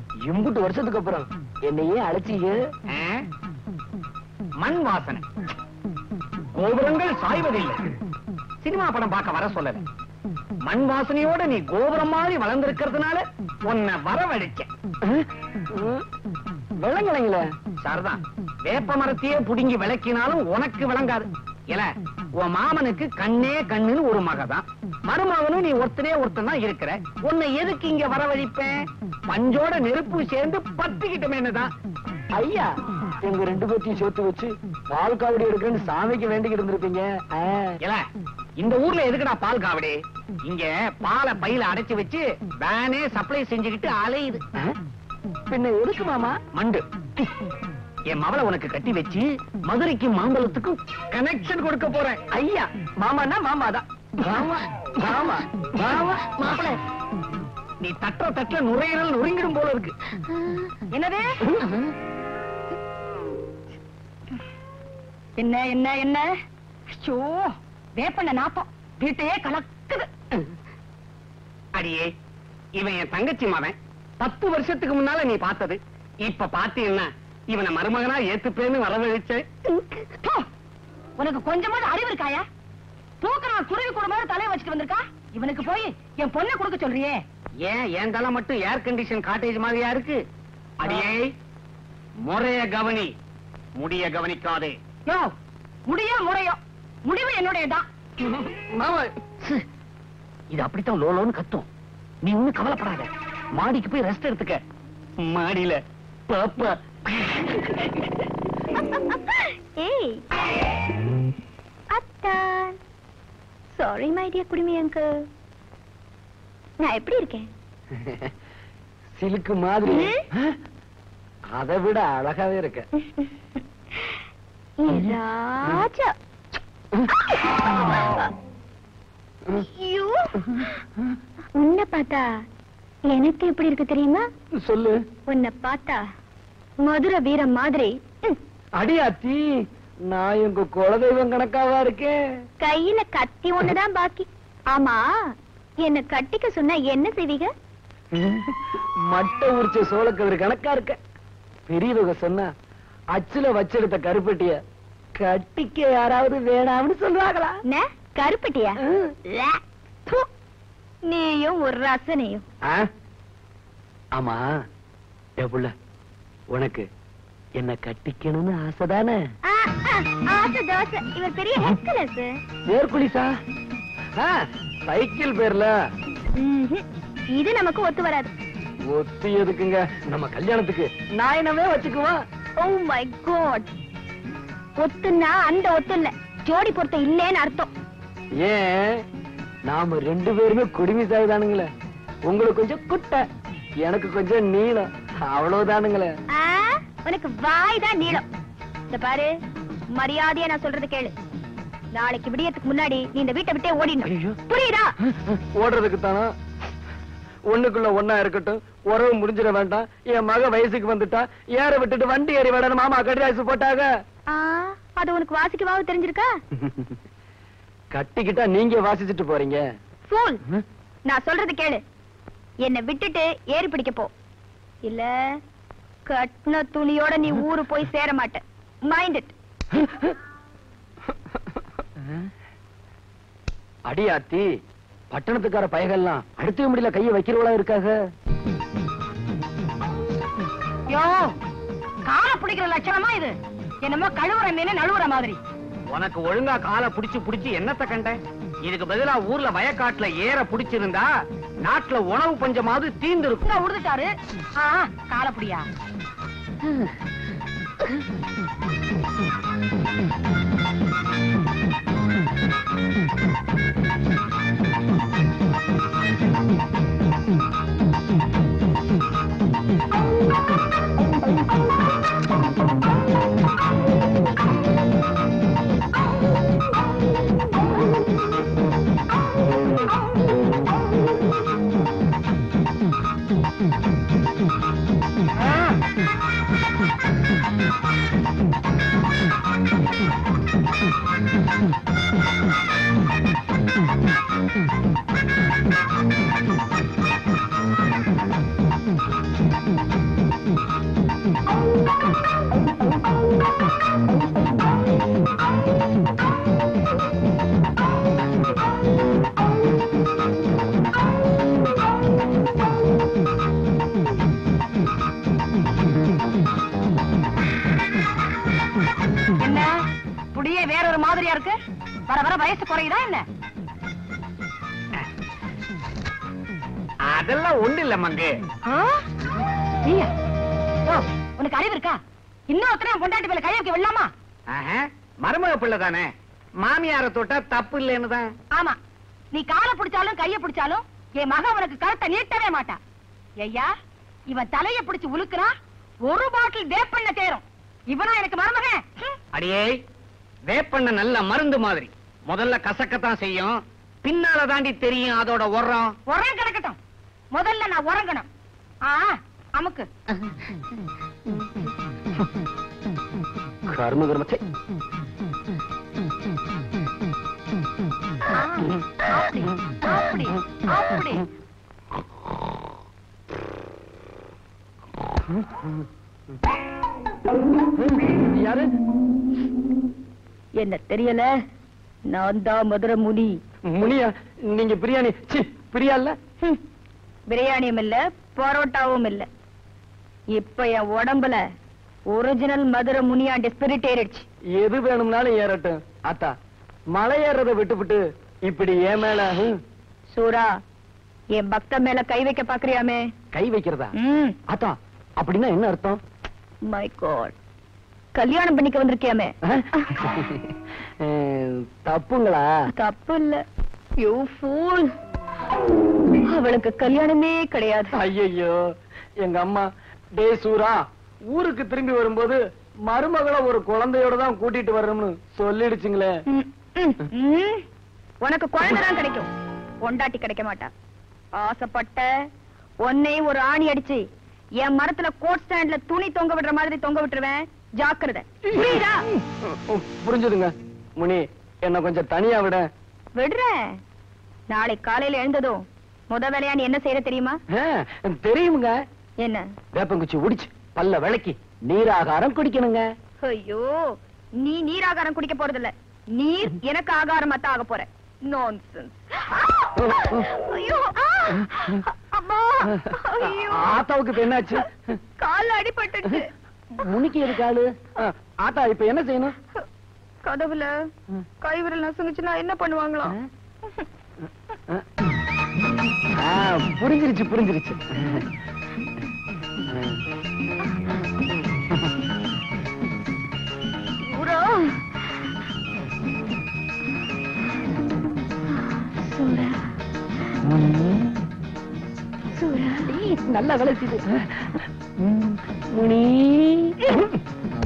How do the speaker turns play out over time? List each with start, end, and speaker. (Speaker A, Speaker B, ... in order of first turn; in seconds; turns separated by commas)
Speaker A: 0.2-2.6, Speaker B: 2.9-3.2, Speaker B: 4.6-5.2, Speaker B: 6.5-7.9, Speaker B: 8.6-9.8, Speaker B: 10.7-14.7, Speaker A: 15.0-16.0, Speaker A: 16.8-17.4, Speaker B: 17.8-28.7, Speaker B: 29.3-31.7, Speaker A: 32.3-32.7, Speaker A: 33.2-37.8, Speaker B: 38.6-44.4, Speaker A: 45.5-46.4, Speaker B: 46.5-46.8, Speaker B: 48.1-52.2, Speaker A: 52.3-56.3, Speaker B: 57.8-59.9, Speaker C: 60.9-61.4, Speaker C: 65.4-66.3, Speaker C: 66.9-70.1, Speaker B: 71.8-72.1, Speaker B: 72.8-79.4, Speaker C: 81.2-82.4, Speaker C: 83.2-87.2, Speaker B: 87.6-90.2, Speaker B: 90.8-91.3, Speaker B: 92.2-93.1, Speaker B: 93.8-94.7, Speaker C: 95.0-95.3, Speaker C: 95.9-97.8, Speaker A: 98.2-99.1, Speaker B: 100.5-101.7, Speaker B: 102.2-104.6, Speaker B: 105.2-107.7, Speaker D: 108.8-110.2, Speaker D: 111.9-112.8, Speaker D: 113.7-115.1, Speaker D: 116.8-117.5, Speaker A: 117.9-118.3, Speaker A: 119.2-120.5, Speaker D: 119.9-120.2, Speaker A: 121.5-122.8, Speaker D: 123.0-123.3, Speaker D: 124.8-126.1, Speaker D: 127.8-128.3, Speaker D: 129.6-130.7, Speaker D: 131.6-132.3, Speaker D: 133.1-134.2, Speaker A: 134.7-135.0, Speaker D: 135.3-136.0, Speaker D: 136.8-138.4, Speaker A: 138.8-139.4, Speaker A: 140.1-142.2, Speaker D: 142.6-145.1, Speaker D: 145.8-147.5, Speaker A: 148.1-148.6, Speaker A: 149.1-151.0, Speaker A: 151.7-152.5, Speaker A: 153.1-154.6, Speaker A: 155.2-157.6, Speaker D: 157.7-158.8, Speaker D: 159.3-160.2, Speaker D: 161.1-162.4, Speaker A: 164.2-164.5, Speaker A: 165.4-165.7, Speaker A: 166.5-166.9, Speaker A: 167.6-169.2, Speaker D: 169.5-172.3, Speaker A: 172.7-173.3, Speaker A: 174.9-175.7, Speaker D: 176.4-176.8, Speaker D: 177.3-178.3, Speaker A: 178.9-182.2, Speaker D: 182.6-183.7, Speaker D: 184.8-187.7, Speaker A: 188.4-189.0, Speaker A: 189.7-191.7, Speaker A: 192.2-193.2, Speaker A: 193.8-196.1, Speaker D: 196.3-198.2, Speaker D: 198.9-199.3, Speaker D: 200.0-201.1, Speaker D: 201.9-204.9, Speaker A: 204.0-204.4, Speaker A: 205.1-206.3, Speaker A: 207.5-213.9, Speaker D: 214.3-216.3, Speaker A: 216.6-216.9, Speaker A: 217.9-219.6, Speaker D: 220.1-220.4, Speaker D: 221.1-221.8, Speaker D: 222.6-224.1, Speaker D: 224.8-225.1, Speaker D: 226.1-229.3, Speaker A: 229.7-230.1, Speaker A: 233.9-234.5, Speaker A: 235.1-237.9, Speaker C: 240.9-241.3, Speaker C: 242.0-245.4, Speaker B: 245.9-251.1, Speaker B: 251.6-253.5, Speaker C: 253.4-254.1, Speaker C: 254.6-255.7, Speaker C: 285.4-285.7, Speaker C: 319.4-319.8, Speaker C: 320.3-321.6, Speaker C: 322.1-323.2, Speaker B: 327.1-328.3, Speaker C: 328.6-329.0, Speaker C: 329.8-330.1, Speaker C: 330.9-332.0, Speaker C: 332.5-334.1, Speaker B: 334.5-336.1, Speaker B: 336.6-338.3, Speaker C: 339.3-342.8, Speaker C: 343.4-343.7, Speaker C: 344.3-345.5, Speaker C: 346.1-349.1, Speaker B: 349.3-349.8, Speaker B: 350.5-355.9, Speaker C: 356.1-356.8, Speaker C: 357.3-358.3, Speaker C: 358.8-359.9, Speaker A: 363.7-364.4, Speaker C: 368.3-371.2, Speaker A: 377.8-378.7, Speaker D: 380.6-381.3, Speaker D: 382.1-383.4, Speaker A: 383.7-386.1, Speaker D: 387.3-389.3, Speaker D: 390.3-391.4, Speaker D: 392.1-394.2, Speaker A: 394.6-396.3, Speaker A: 396.9-399.5, Speaker D: 400.1-400.5, Speaker D: 401.4-403.0, Speaker A: 403.3-403.9, Speaker D: 404.0-404.4, Speaker A: 404.5-406.0, Speaker D: 406.7-407.3, Speaker D: 408.1-409.3, Speaker A: 409.4-412.5, Speaker D: 412.8-413.4, Speaker D: 414.0-414.9, Speaker D: 416.3-417.9, Speaker A: 417.9-418.6, Speaker A: 419.2-422.4, Speaker A: 422.9-426.1, Speaker D: 426.3-427.6, Speaker D: 428.2-429.3, Speaker D: 429.8-430.7, Speaker D: 431.4-432.1, Speaker D: 432.8-434.0, Speaker D: 434.6-438.9, Speaker A: 438.4-442.6, Speaker D: 443.2-443.5, Speaker D: 444.5-447.4, Speaker A: 447.5-448.7, Speaker A: 449.7-452.8, Speaker D: 453.2-453.7, Speaker D: 454.4-463.8, Speaker A: 459.8-460.3, Speaker A: 463.2-464.8, Speaker D: 465.2-466.3, Speaker A: 466.8-469.3, Speaker D: 470.2-470.7, Speaker D: 471.4-473.1, Speaker A: 476.2-478.2, Speaker A: 479.7-480.0, Speaker D: 484.0-484.9, Speaker D: 488.9-489.5, Speaker A: 490.5-491.0, Speaker D: 492.4-492.8, Speaker A: 492.8-497.0